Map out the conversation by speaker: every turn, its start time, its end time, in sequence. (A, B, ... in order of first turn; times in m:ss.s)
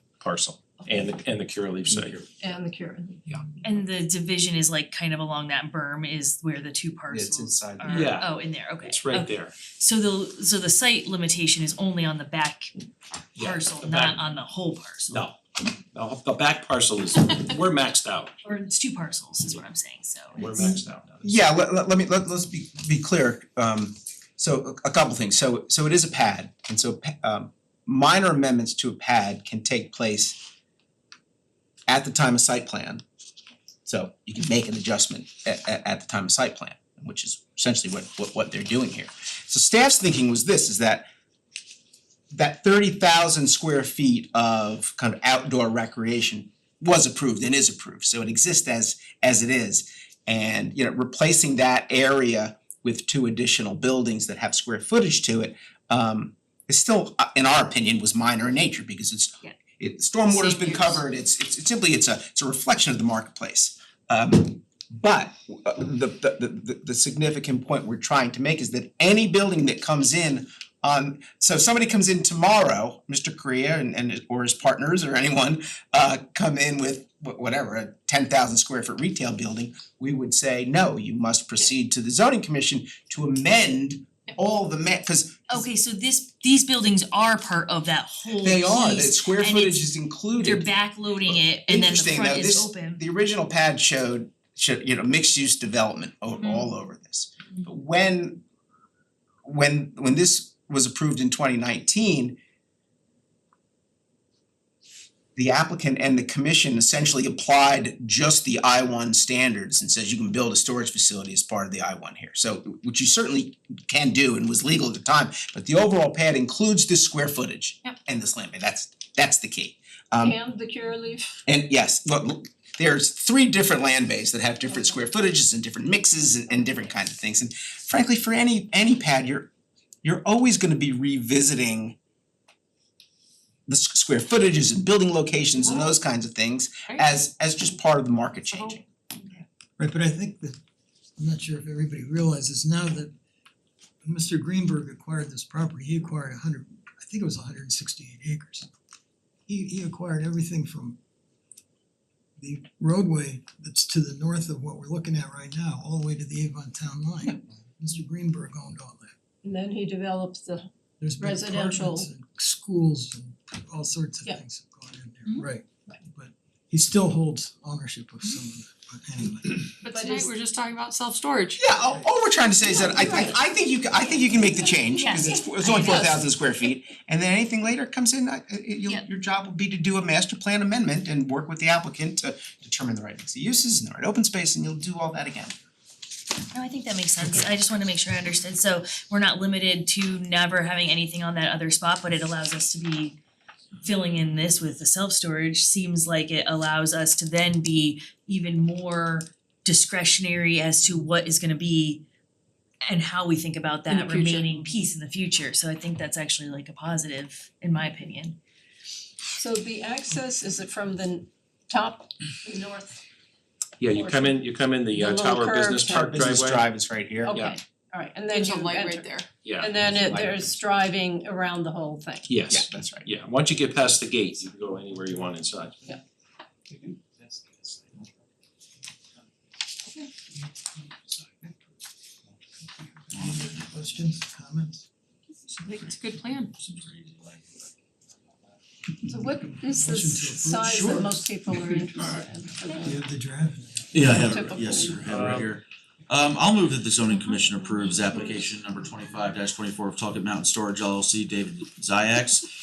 0:00.2-0:02.3 A
0:02.4-0:03.4 B
0:03.6-0:12.7 C
0:07.1-0:08.2 D
0:07.9-0:08.3 A
0:08.8-0:09.6 A
0:13.4-0:14.2 A
0:13.4-0:15.2 C
0:15.1-0:15.4 A
0:15.9-0:18.3 A
0:18.4-0:20.5 C
0:20.4-0:21.3 A
0:20.5-0:30.4 D
0:31.9-0:33.0 D
0:33.9-0:41.1 D
0:42.3-1:25.6 D
1:00.3-1:01.0 C
1:25.5-1:29.8 C
1:28.4-1:30.8 D
1:30.4-1:33.0 C
1:31.3-1:38.4 D
1:39.4-1:42.4 D
1:45.4-2:00.4 D
2:00.2-2:01.3 B
2:01.5-2:09.5 D
2:10.0-2:12.0 D
2:13.7-2:18.8 D
2:18.5-2:18.8 E
2:19.8-2:20.6 F
2:21.2-2:23.1 F
2:24.0-2:28.7 F
2:29.5-2:31.0 F
2:32.4-2:39.1 F
2:39.4-2:40.7 B
2:41.0-2:49.6 F
2:41.2-2:42.1 B
2:49.8-2:51.7 E
2:49.9-2:50.3 B
2:51.6-3:05.5 D
2:52.7-2:53.4 B
2:55.0-2:56.2 C
3:06.5-3:13.2 C
3:13.8-3:22.0 C
3:22.8-3:28.4 C
3:23.9-3:24.5 B
3:29.4-3:33.0 B
3:33.8-3:36.6 A
3:33.8-3:36.4 B
3:36.0-3:37.4 D
3:37.2-3:42.4 B
3:38.3-3:39.4 E
3:39.4-3:40.4 A
3:42.3-3:45.9 A
3:42.5-3:43.1 D
3:53.2-3:54.8 F
3:55.6-3:56.5 E
3:55.6-3:57.6 G
3:59.1-4:03.0 B
3:59.5-4:01.1 F
4:02.9-4:04.1 F
4:03.9-4:12.5 G
4:04.1-4:05.2 B
4:05.1-4:05.5 A